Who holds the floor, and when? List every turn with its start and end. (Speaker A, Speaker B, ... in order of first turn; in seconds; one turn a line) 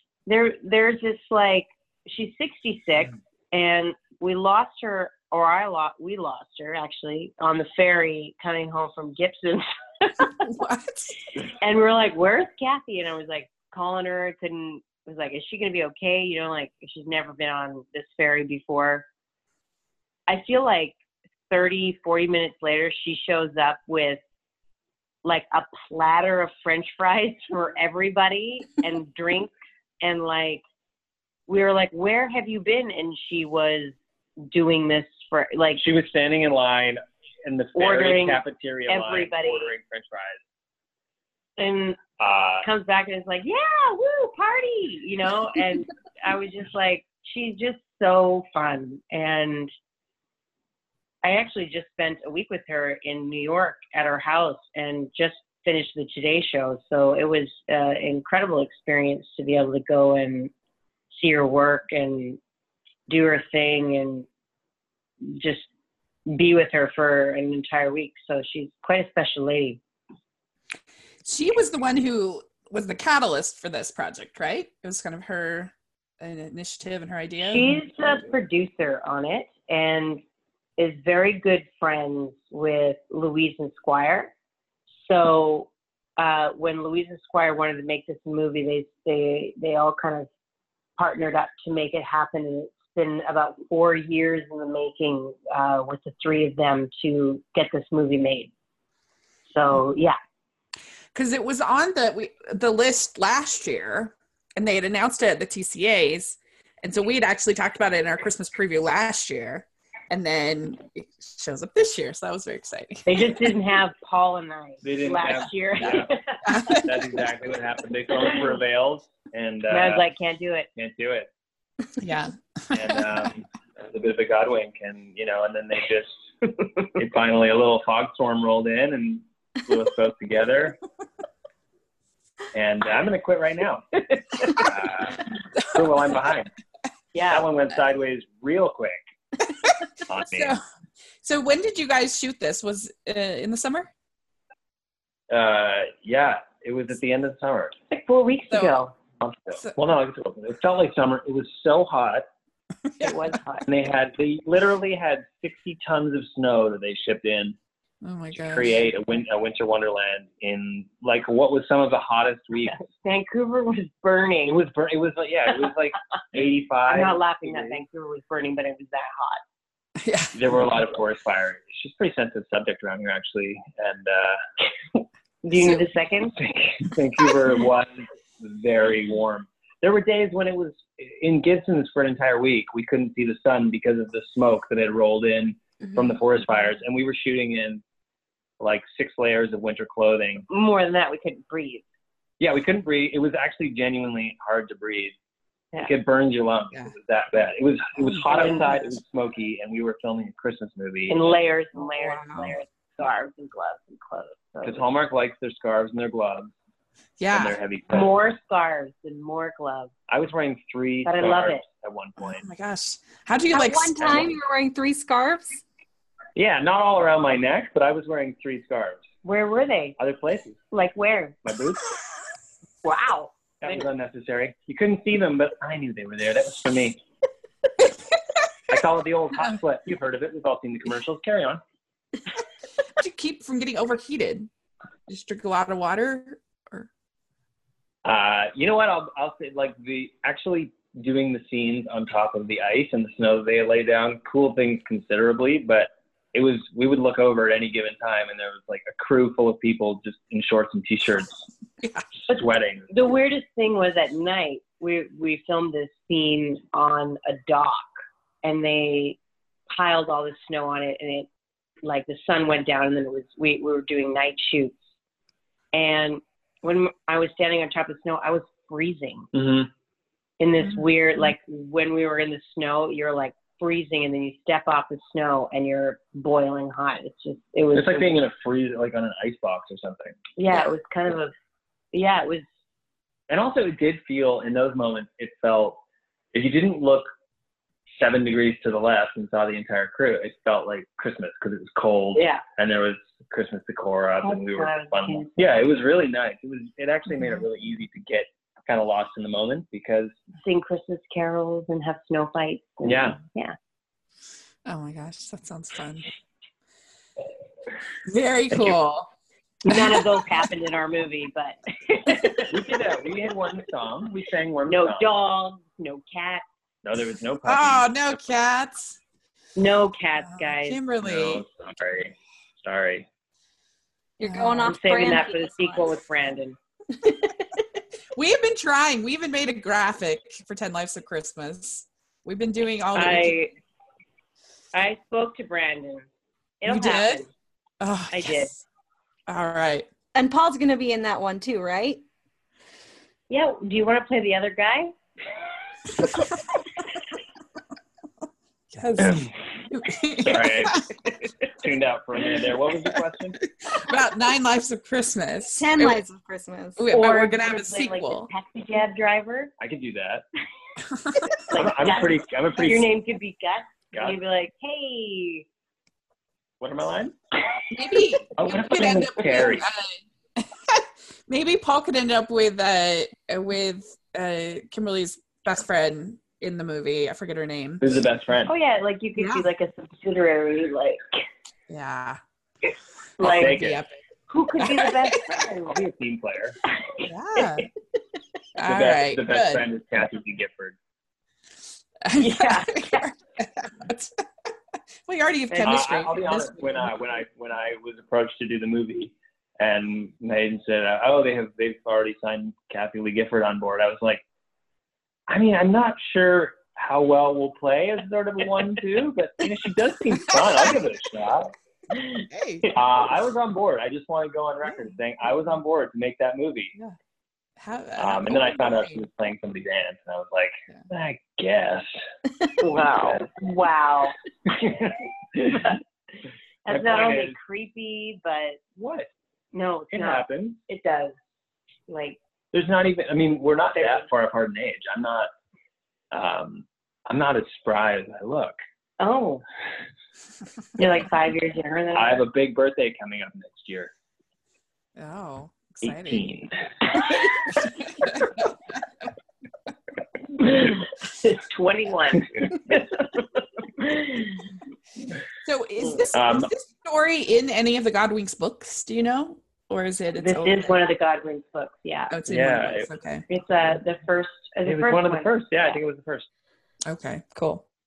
Speaker A: 0.3-10.5
Speaker B: 10.4-11.2
Speaker A: 11.4-19.1
Speaker A: 20.3-20.9
Speaker A: 21.5-24.2
Speaker A: 25.2-30.6
Speaker A: 31.5-35.8
Speaker C: 35.8-40.4
Speaker A: 37.8-39.7
Speaker A: 41.6-42.0
Speaker C: 42.2-42.7
Speaker A: 42.6-49.7
Speaker A: 51.2-60.5
Speaker A: 61.1-62.4
Speaker A: 63.1-64.3
Speaker A: 65.2-65.7
Speaker A: 66.3-69.8
Speaker B: 71.2-77.8
Speaker A: 77.5-80.2
Speaker A: 80.8-84.3
Speaker A: 85.0-90.3
Speaker A: 91.0-98.5
Speaker A: 99.5-100.2
Speaker B: 101.1-113.4
Speaker A: 113.1-116.8
Speaker C: 114.8-116.1
Speaker B: 116.5-116.9
Speaker C: 116.7-120.0
Speaker A: 119.7-120.7
Speaker C: 120.8-121.3
Speaker B: 122.0-123.0
Speaker C: 122.7-126.2
Speaker C: 127.0-130.8
Speaker C: 132.5-136.5
Speaker A: 137.1-137.5
Speaker C: 137.3-139.0
Speaker C: 140.1-140.6
Speaker B: 140.2-140.6
Speaker B: 141.2-143.9
Speaker C: 145.3-147.7
Speaker A: 147.9-148.9
Speaker B: 148.5-148.8
Speaker C: 149.2-152.3
Speaker B: 152.9-153.3
Speaker A: 153.0-153.7
Speaker C: 153.7-157.6
Speaker B: 158.0-158.8
Speaker C: 158.3-162.8
Speaker A: 162.7-164.6
Speaker C: 164.5-167.8
Speaker A: 166.9-169.4
Speaker B: 170.0-170.4
Speaker C: 170.3-174.4
Speaker A: 175.4-176.4
Speaker C: 176.4-187.8
Speaker C: 188.6-190.5
Speaker A: 190.5-191.8
Speaker C: 192.4-195.2
Speaker C: 195.8-201.3
Speaker A: 198.2-198.8
Speaker A: 201.1-204.9
Speaker B: 201.8-202.6
Speaker C: 204.6-206.5
Speaker B: 207.2-207.6
Speaker C: 207.3-208.1
Speaker A: 207.9-209.9
Speaker C: 210.1-212.5
Speaker A: 211.1-211.6
Speaker B: 212.2-214.3
Speaker D: 213.5-215.6
Speaker C: 216.3-219.0
Speaker A: 219.2-220.0
Speaker C: 220.0-220.6
Speaker A: 220.7-221.4
Speaker C: 221.4-222.0
Speaker A: 222.8-223.9
Speaker C: 223.6-227.0
Speaker C: 228.7-231.6
Speaker B: 233.0-234.5
Speaker B: 235.1-236.9
Speaker C: 238.0-251.4
Speaker C: 252.3-252.9
Speaker A: 252.3-257.9
Speaker A: 258.4-259.2
Speaker A: 259.7-261.3
Speaker A: 261.8-264.8
Speaker A: 265.7-269.3
Speaker C: 269.3-269.7
Speaker A: 270.4-278.2
Speaker C: 277.7-280.2
Speaker A: 280.4-281.3
Speaker A: 281.9-282.4
Speaker C: 283.3-285.8
Speaker C: 286.3-287.1
Speaker C: 288.0-300.2
Speaker A: 292.1-292.4
Speaker A: 294.2-295.6
Speaker A: 300.4-303.6
Speaker C: 302.8-303.2
Speaker B: 304.7-306.1
Speaker B: 308.1-309.1
Speaker A: 309.6-312.8
Speaker B: 309.7-310.1
Speaker C: 312.5-315.1
Speaker A: 314.7-316.4
Speaker C: 316.8-318.1
Speaker B: 317.5-319.0
Speaker A: 319.6-320.8
Speaker B: 320.3-321.4
Speaker C: 321.0-323.1
Speaker D: 324.2-325.9
Speaker B: 324.2-324.7
Speaker A: 324.6-326.6
Speaker B: 328.1-333.4
Speaker A: 332.9-333.5
Speaker A: 334.7-336.1
Speaker A: 336.6-337.3
Speaker B: 336.7-337.2
Speaker B: 337.8-338.6
Speaker A: 338.1-338.5
Speaker B: 339.3-339.9
Speaker D: 340.1-342.0
Speaker A: 343.3-344.9
Speaker B: 348.7-350.9
Speaker C: 350.2-350.8
Speaker C: 351.5-353.4
Speaker B: 353.4-356.0
Speaker D: 355.6-356.8
Speaker B: 356.8-358.3
Speaker A: 356.9-359.5
Speaker C: 359.6-360.2
Speaker A: 361.4-365.5
Speaker C: 361.5-362.9
Speaker C: 366.6-367.1
Speaker B: 367.7-378.0
Speaker C: 368.4-369.7
Speaker C: 377.8-378.5
Speaker A: 378.5-381.0
Speaker B: 379.2-379.5
Speaker B: 381.7-382.2
Speaker A: 383.2-383.6
Speaker B: 383.2-383.9
Speaker C: 383.2-383.8
Speaker A: 384.3-385.8
Speaker B: 384.6-385.1
Speaker C: 385.7-386.6
Speaker A: 386.8-387.7
Speaker B: 387.0-387.7
Speaker B: 388.6-389.6
Speaker C: 388.6-390.8
Speaker B: 392.0-394.2
Speaker A: 392.2-393.1
Speaker B: 395.1-396.8
Speaker A: 395.5-395.9
Speaker C: 395.6-404.2
Speaker C: 405.3-411.5
Speaker B: 412.3-412.7
Speaker C: 412.7-416.8
Speaker B: 417.6-419.0
Speaker C: 418.0-422.0
Speaker A: 422.6-424.1
Speaker C: 424.5-425.7
Speaker A: 426.7-428.7
Speaker C: 426.7-427.4
Speaker C: 428.8-429.1
Speaker A: 429.5-431.2
Speaker C: 429.9-430.6
Speaker A: 431.9-432.2
Speaker C: 432.5-435.3
Speaker A: 433.8-434.1
Speaker C: 436.1-438.6
Speaker A: 439.0-439.4
Speaker A: 440.8-442.2
Speaker C: 441.9-443.9
Speaker B: 445.0-446.4
Speaker C: 445.8-446.6
Speaker B: 447.6-448.4
Speaker A: 450.4-453.3
Speaker A: 453.8-454.4
Speaker B: 455.4-460.8
Speaker C: 456.1-456.5
Speaker A: 460.2-462.1
Speaker B: 462.1-463.2
Speaker C: 462.3-462.9
Speaker A: 463.3-465.8
Speaker C: 464.6-466.3
Speaker B: 466.9-467.6